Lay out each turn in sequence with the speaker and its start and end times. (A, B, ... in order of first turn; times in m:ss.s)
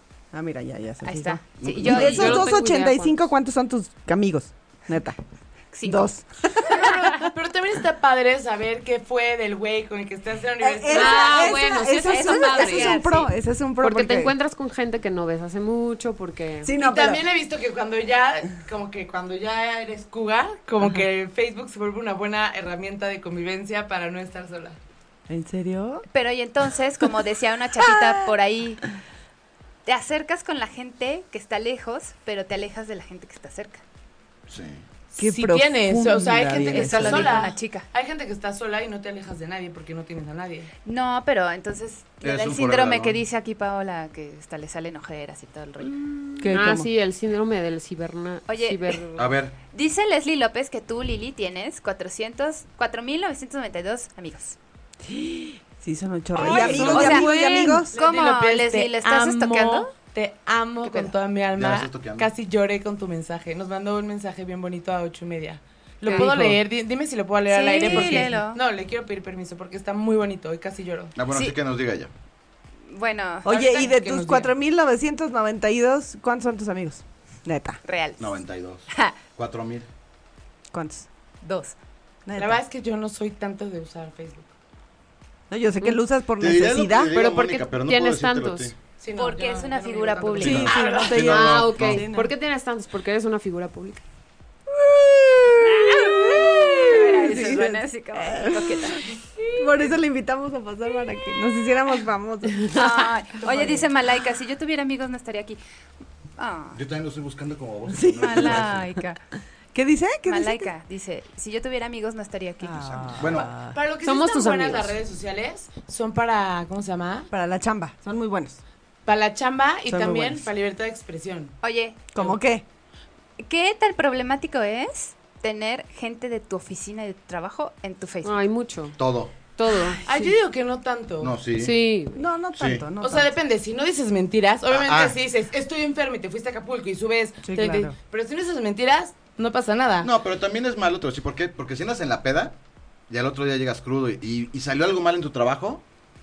0:00.3-0:05.2 A
0:01.0-0:02.5 B
0:01.6-0:02.5 C
0:02.0-0:03.2 D
0:05.7-0:06.1 B
0:05.8-0:07.1 A
0:06.7-0:11.6 E
0:06.7-0:07.1 B
0:10.6-0:14.3 A
0:10.9-0:13.0 D
0:12.1-0:13.3 B
0:13.8-0:16.7 D
0:16.6-0:17.2 A
0:16.8-0:24.8 E
0:25.3-0:26.0 A
0:26.1-0:28.8 B
0:27.8-0:28.3 A
0:29.8-0:33.8 B
0:34.5-0:34.8 C
0:35.1-0:40.7 E
0:35.2-0:37.5 A
0:36.7-0:37.8 B
0:40.8-0:46.4 B
0:42.2-0:43.2 C
0:46.4-0:46.9 A
0:46.5-0:49.1 D
0:48.5-0:54.6 B
0:49.1-0:49.6 C
0:55.0-0:57.9 A
0:56.4-0:59.9 B
0:56.4-1:11.1 E
0:56.7-0:57.0 C
1:00.8-1:01.1 B
1:01.5-1:02.3 C
1:06.0-1:06.3 B
1:06.1-1:06.6 A
1:07.5-1:08.6 B
1:07.8-1:08.3 A
1:11.2-1:12.1 C
1:11.3-1:11.6 B
1:12.9-1:13.8 B
1:13.4-1:17.8 A
1:13.4-1:14.5 E
1:17.8-1:19.2 B
1:18.2-1:19.9 C
1:20.7-1:21.1 A
1:21.4-1:21.8 B
1:22.2-1:22.6 A
1:22.4-1:24.5 E
1:25.5-1:27.1 A
1:26.4-1:28.7 C
1:27.1-1:28.7 D
1:29.0-1:31.2 E
1:29.2-1:31.0 B
1:30.4-1:32.1 C
1:30.4-1:32.3 A
1:31.2-1:34.0 D
1:34.7-1:39.0 A
1:35.6-1:39.6 B
1:39.6-1:43.8 A
1:42.7-1:45.6 B
1:46.4-1:46.8 B
1:46.7-1:48.8 C
1:47.9-1:48.7 A
1:48.2-1:49.2 B
1:49.7-1:50.7 A
1:50.3-1:53.4 B
1:52.6-1:53.8 A
1:53.1-1:53.5 C
1:53.4-1:57.3 E
1:54.0-1:55.0 D
1:57.3-1:58.6 A
1:59.0-2:01.6 E
1:59.9-2:00.5 A
2:01.6-2:02.1 B
2:02.1-2:02.6 A
2:03.4-2:08.4 B
2:08.2-2:09.0 D
2:09.0-2:09.4 C
2:09.5-2:10.0 D
2:10.0-2:11.3 E
2:11.2-2:11.7 C
2:11.5-2:12.2 D
2:12.1-2:13.3 A
2:12.6-2:12.8 C
2:13.0-2:20.1 E
2:14.7-2:15.1 C
2:17.4-2:17.9 A
2:20.0-2:22.6 C
2:23.1-2:25.8 C